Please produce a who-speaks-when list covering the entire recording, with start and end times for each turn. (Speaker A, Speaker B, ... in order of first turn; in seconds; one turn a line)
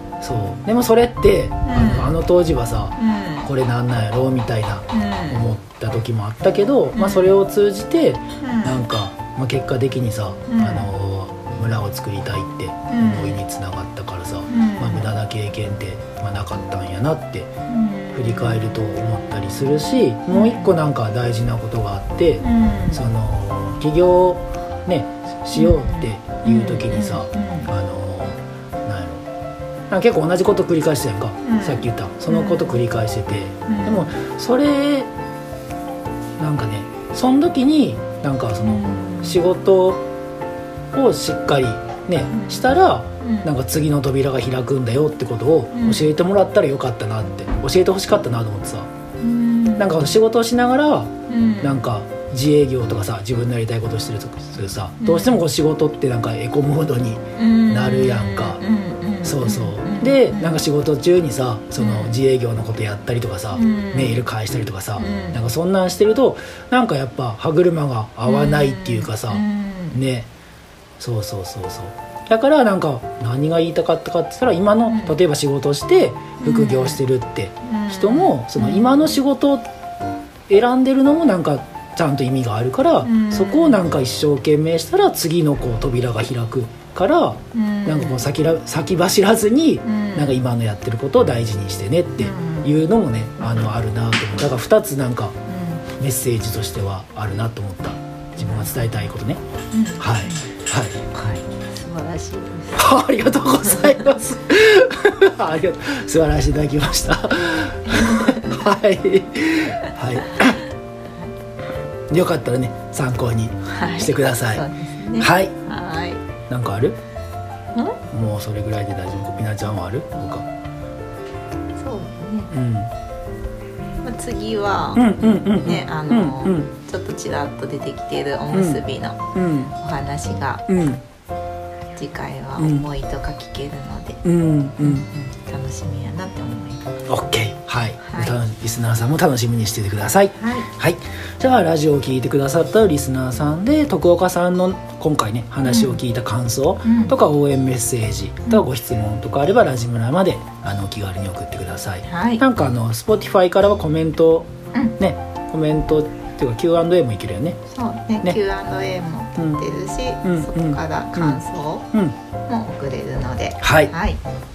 Speaker A: 0.2-17.5
Speaker B: 1.6-2.1
Speaker B: 3.0-3.5
Speaker B: 4.9-5.4
Speaker B: 6.9-7.3
Speaker B: 8.4-8.8
Speaker B: 10.5-10.9
Speaker B: 12.9-13.4
Speaker B: 14.5-15.1
Speaker B: 17.7-18.7
Speaker A: 18.1-29.2
Speaker B: 20.3-20.8
Speaker B: 22.4-23.0
Speaker B: 25.6-27.7
Speaker A: 29.9-35.1
Speaker B: 31.4-32.8
Speaker B: 33.7-34.1
Speaker A: 36.4-40.0
Speaker B: 38.6-39.4
Speaker A: 40.9-48.9
Speaker B: 42.3-43.5
Speaker B: 45.7-46.1
Speaker B: 49.2-50.1
Speaker A: 49.8-58.6
Speaker B: 51.3-51.9
Speaker B: 55.0-55.4
Speaker B: 57.4-60.6
Speaker A: 59.2-70.3
Speaker B: 61.8-62.1
Speaker B: 63.5-64.2
Speaker B: 65.0-65.4
Speaker B: 68.2-70.0
Speaker A: 71.0-79.7
Speaker B: 74.9-75.2
Speaker B: 76.4-77.0
Speaker B: 77.6-79.2
Speaker A: 80.5-95.4
Speaker B: 83.0-83.8
Speaker B: 87.5-88.3
Speaker B: 89.8-90.4
Speaker B: 92.2-92.7
Speaker B: 95.5-95.8
Speaker A: 96.0-99.4
Speaker B: 98.4-98.7
Speaker B: 99.7-100.5
Speaker A: 100.0-101.0
Speaker B: 101.1-102.9
Speaker A: 102.7-110.6
Speaker B: 107.9-108.5
Speaker A: 112.1-114.6
Speaker B: 113.7-116.2
Speaker A: 115.2-115.5
Speaker A: 116.5-117.0
Speaker A: 118.1-120.5
Speaker B: 121.8-122.6
Speaker A: 122.5-122.9
Speaker B: 124.0-130.7
Speaker A: 124.9-126.7
Speaker A: 128.5-128.8
Speaker A: 129.3-129.8
Speaker A: 130.7-131.0
Speaker B: 131.9-134.2
Speaker A: 132.6-132.8
Speaker A: 134.2-135.1
Speaker B: 134.8-137.1
Speaker A: 137.1-157.6
Speaker B: 138.0-138.4
Speaker B: 140.4-140.7
Speaker B: 145.7-146.0
Speaker B: 146.8-147.1
Speaker B: 152.1-152.4
Speaker B: 157.7-161.9
Speaker A: 159.4-159.7
Speaker A: 160.2-161.4
Speaker B: 162.5-164.2
Speaker A: 163.6-163.9